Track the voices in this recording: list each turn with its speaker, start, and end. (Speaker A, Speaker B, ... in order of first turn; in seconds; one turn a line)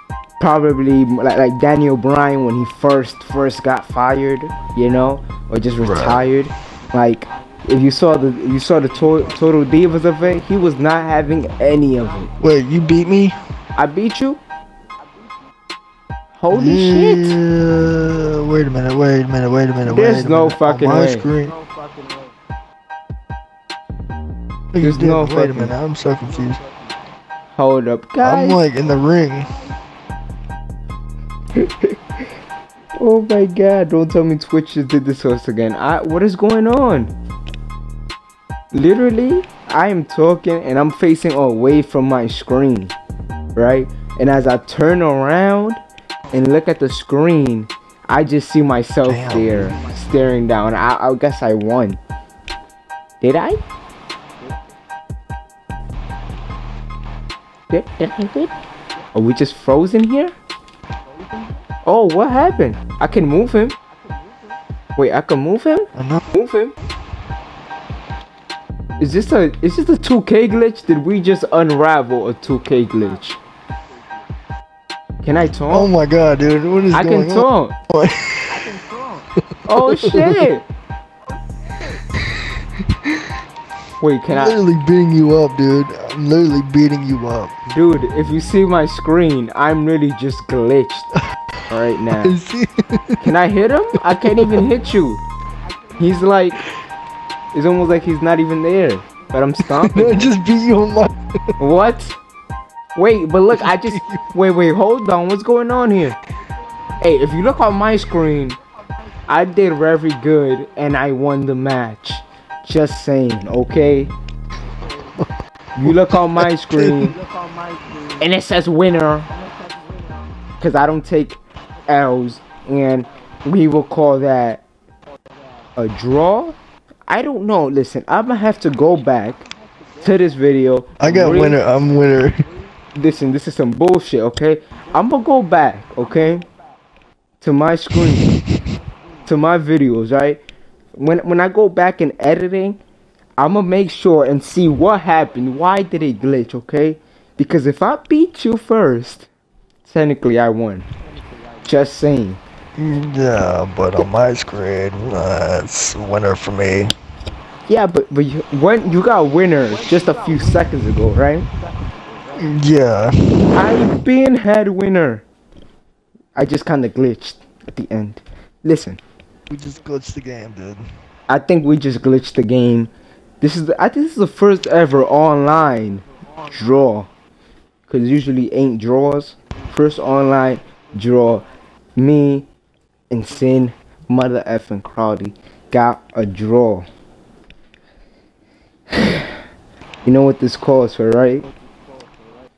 Speaker A: 0.4-12.3
Speaker B: 5.8-6.2
Speaker B: 12.4-13.4
Speaker A: 13.8-14.4
Speaker A: 16.4-17.4
Speaker B: 16.5-21.6
Speaker A: 19.8-21.3
Speaker B: 24.7-26.6
Speaker A: 24.8-25.8
Speaker A: 27.5-28.6
Speaker B: 28.2-29.6
Speaker A: 31.5-31.9
Speaker A: 33.0-37.1
Speaker A: 38.7-42.9
Speaker A: 43.5-52.0
Speaker B: 49.1-49.8
Speaker A: 53.2-53.6
Speaker A: 57.7-58.5
Speaker A: 59.1-60.3
Speaker A: 61.8-63.8
Speaker A: 65.0-66.7
Speaker B: 65.9-66.2
Speaker A: 69.0-73.4
Speaker A: 75.2-75.9
Speaker B: 75.7-78.7
Speaker A: 76.9-77.7
Speaker B: 79.3-80.5
Speaker A: 79.7-80.7
Speaker B: 82.0-82.3
Speaker A: 84.0-84.6
Speaker B: 84.3-87.5
Speaker A: 87.7-91.1
Speaker A: 91.7-92.4
Speaker B: 92.1-93.3
Speaker A: 93.2-95.2
Speaker B: 94.1-94.7
Speaker A: 96.0-96.6
Speaker A: 97.5-100.3
Speaker B: 99.7-101.4
Speaker A: 101.6-102.2
Speaker A: 102.9-106.2
Speaker B: 103.5-104.2
Speaker A: 107.0-108.6
Speaker A: 109.3-114.1
Speaker A: 115.7-117.2
Speaker B: 115.8-117.1
Speaker A: 118.2-119.3
Speaker A: 120.6-124.6
Speaker A: 125.8-126.5
Speaker A: 127.1-129.4
Speaker A: 130.0-131.6
Speaker B: 131.0-132.4
Speaker A: 132.9-136.5
Speaker A: 137.4-138.3
Speaker A: 139.2-140.4
Speaker A: 140.9-142.8
Speaker A: 143.4-149.3
Speaker A: 149.8-150.8
Speaker A: 151.6-152.4
Speaker B: 152.8-156.9
Speaker A: 157.7-161.5
Speaker B: 162.3-163.8
Speaker A: 163.5-165.2
Speaker A: 166.3-169.0
Speaker B: 169.5-170.8
Speaker A: 171.3-177.1
Speaker A: 177.9-181.4
Speaker A: 181.9-182.5
Speaker A: 183.1-186.9
Speaker A: 188.9-189.4
Speaker A: 190.0-191.5